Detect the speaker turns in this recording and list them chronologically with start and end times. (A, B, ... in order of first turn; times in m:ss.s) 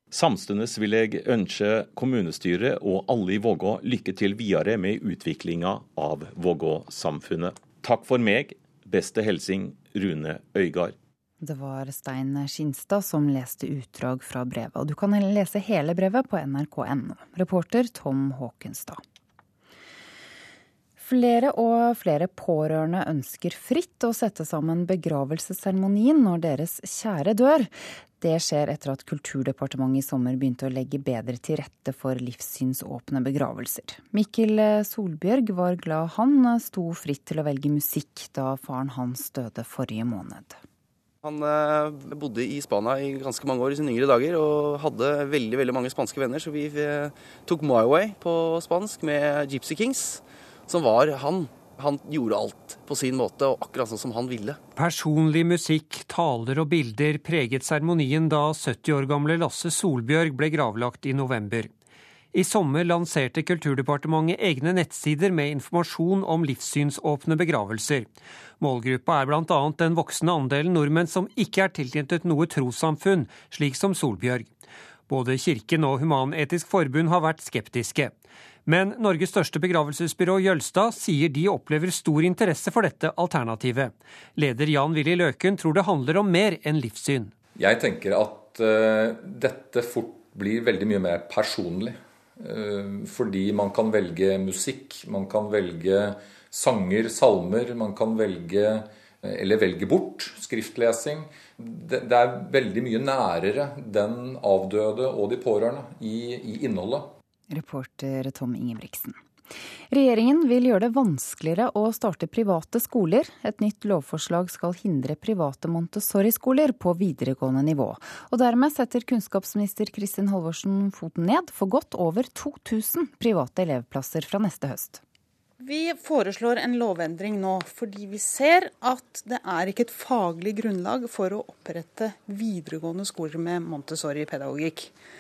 0:00.1-0:11.0 A
0:11.4-0:19.0 B
0:21.0-0:40.6 B
0:41.2-0:54.6 C
0:54.8-1:01.7 D
1:02.3-1:14.5 D
1:15.1-1:18.2 D
1:18.7-1:27.3 D
1:27.6-1:47.1 E
1:47.5-1:49.2 B
1:49.9-2:05.0 B
2:05.6-2:14.9 F